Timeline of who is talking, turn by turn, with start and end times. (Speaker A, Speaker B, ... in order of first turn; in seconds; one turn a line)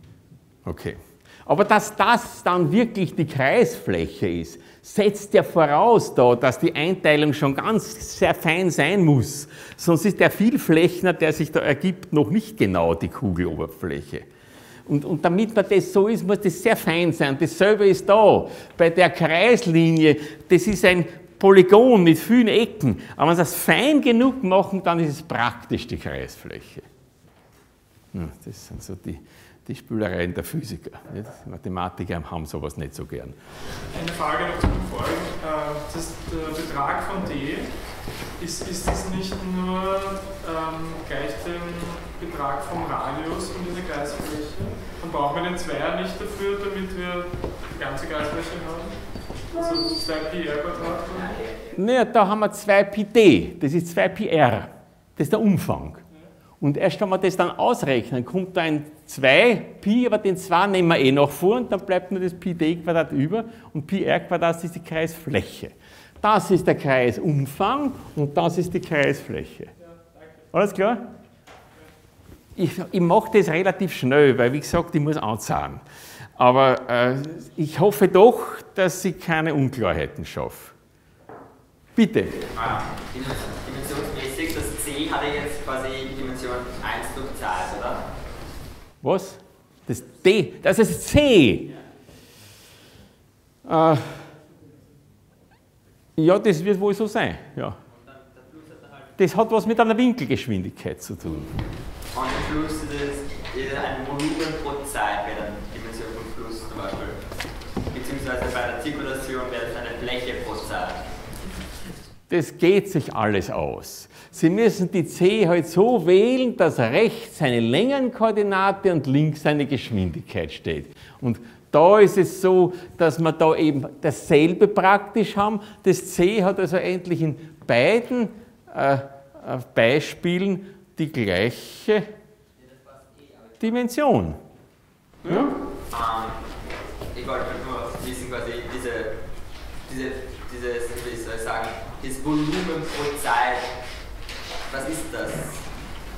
Speaker A: 0.7-14.3
Speaker A: 14.9-26.9
Speaker A: 28.1-33.4
Speaker B: 33.9-37.8
Speaker B: 38.4-49.0
Speaker B: 49.5-51.4
Speaker A: 51.7-56.0
Speaker A: 56.6-69.7
Speaker A: 70.5-71.1
Speaker A: 72.6-75.8
Speaker A: 76.4-80.8
Speaker A: 82.0-82.5
Speaker C: 82.6-88.1
Speaker A: 89.0-91.7
Speaker A: 93.7-94.3
Speaker A: 96.2-97.8
Speaker A: 99.2-101.5
Speaker C: 102.1-107.2
Speaker C: 107.9-111.0
Speaker A: 112.3-132.1
Speaker A: 133.6-134.4
Speaker B: 135.2-135.5
Speaker A: 135.3-135.5
Speaker C: 135.9-136.4
Speaker C: 137.1-139.2
Speaker C: 139.9-143.7
Speaker C: 144.7-145.6